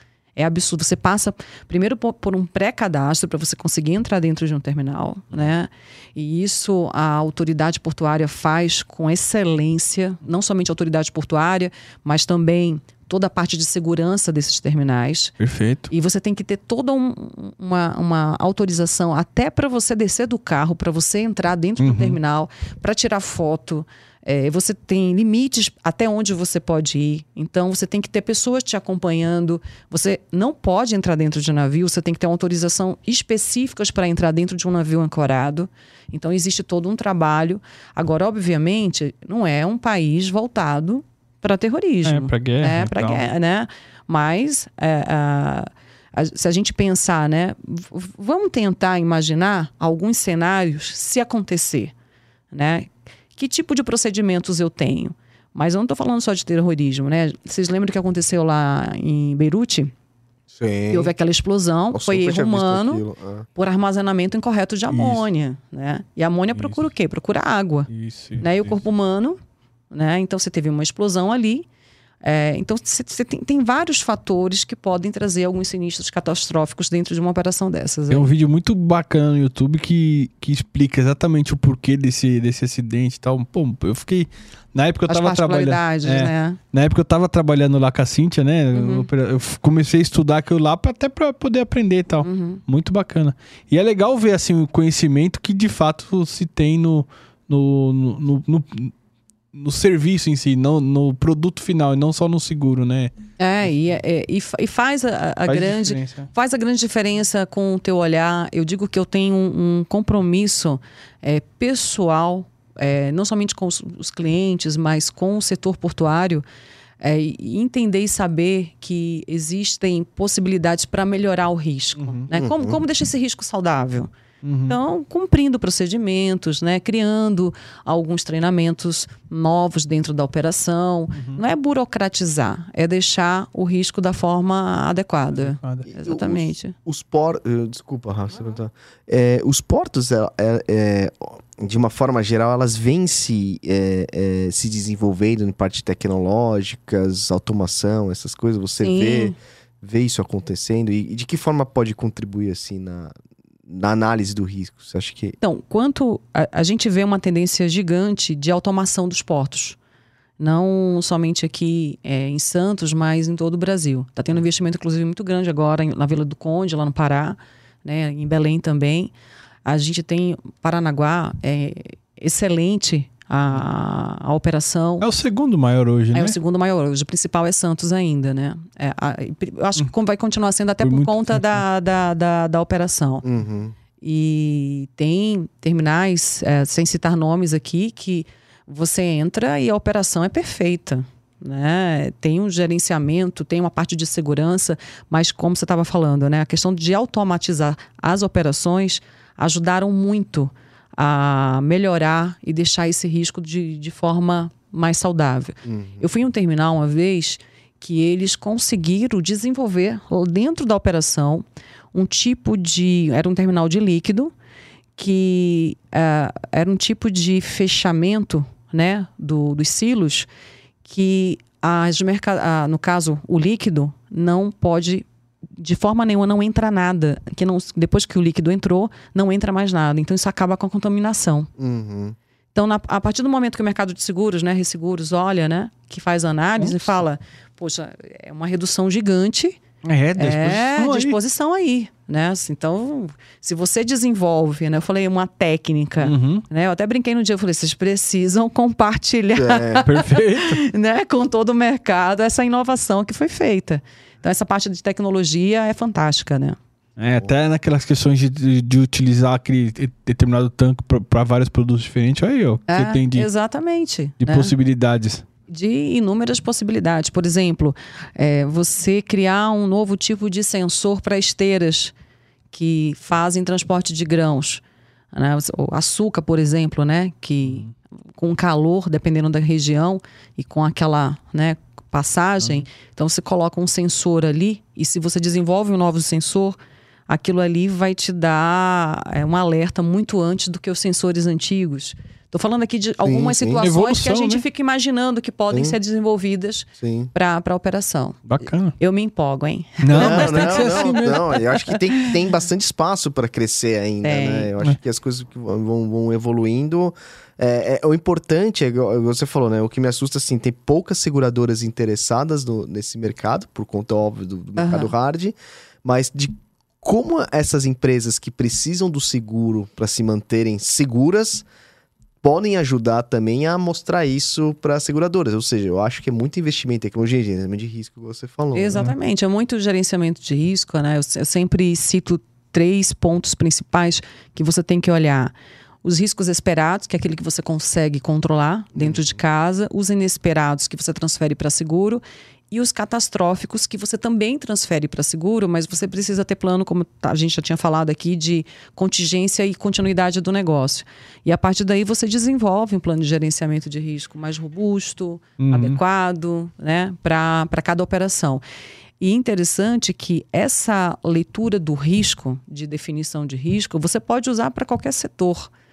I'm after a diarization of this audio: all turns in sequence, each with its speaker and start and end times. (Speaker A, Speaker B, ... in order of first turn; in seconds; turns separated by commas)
Speaker A: 0.3-15.3, Speaker B: 15.4-15.9, Speaker A: 15.9-51.9, Speaker B: 21.8-22.2, Speaker B: 42.0-43.2, Speaker A: 52.5-59.9, Speaker C: 60.5-61.1, Speaker A: 60.9-63.0, Speaker C: 61.9-63.5, Speaker A: 63.5-67.9, Speaker B: 64.9-65.2, Speaker B: 66.5-66.8, Speaker B: 67.9-68.7, Speaker A: 68.4-69.4, Speaker A: 69.9-71.7, Speaker A: 72.2-78.3, Speaker B: 78.1-98.9, Speaker A: 85.1-86.6, Speaker A: 88.7-89.1, Speaker A: 92.2-92.6, Speaker B: 99.5-103.1, Speaker A: 103.4-116.4, Speaker B: 105.5-106.3, Speaker A: 117.0-124.1, Speaker B: 122.0-122.2, Speaker C: 122.3-122.8, Speaker B: 124.4-124.8, Speaker A: 124.7-136.7, Speaker B: 131.2-131.4, Speaker B: 135.4-135.9, Speaker C: 135.9-153.1, Speaker A: 148.8-149.4, Speaker C: 153.7-155.3, Speaker A: 155.4-159.8, Speaker A: 160.4-169.1, Speaker A: 169.7-175.1, Speaker B: 175.0-176.4, Speaker A: 176.1-183.2, Speaker B: 180.8-181.6, Speaker C: 183.2-183.7, Speaker A: 184.0-214.3, Speaker C: 205.6-206.0, Speaker A: 215.0-220.3, Speaker A: 220.8-225.1, Speaker A: 225.6-231.5, Speaker C: 231.6-232.2, Speaker A: 232.5-239.6, Speaker B: 236.6-236.9, Speaker B: 239.8-241.2, Speaker A: 240.2-256.6, Speaker B: 246.0-246.4, Speaker C: 249.3-249.8, Speaker B: 249.8-250.6, Speaker B: 257.0-263.3, Speaker A: 262.7-264.5, Speaker B: 264.2-265.2, Speaker A: 265.5-271.9, Speaker A: 272.5-277.6, Speaker B: 277.4-277.7, Speaker A: 278.2-286.6, Speaker A: 287.1-300.8, Speaker C: 293.0-293.6, Speaker B: 293.6-294.4, Speaker C: 295.5-295.8, Speaker C: 296.8-297.1, Speaker B: 298.3-298.8, Speaker B: 299.8-301.8, Speaker C: 299.9-321.4, Speaker A: 304.0-304.5, Speaker A: 314.6-314.9, Speaker C: 322.2-328.9, Speaker A: 328.5-358.4, Speaker C: 338.7-339.0, Speaker B: 355.4-355.8, Speaker A: 359.0-365.5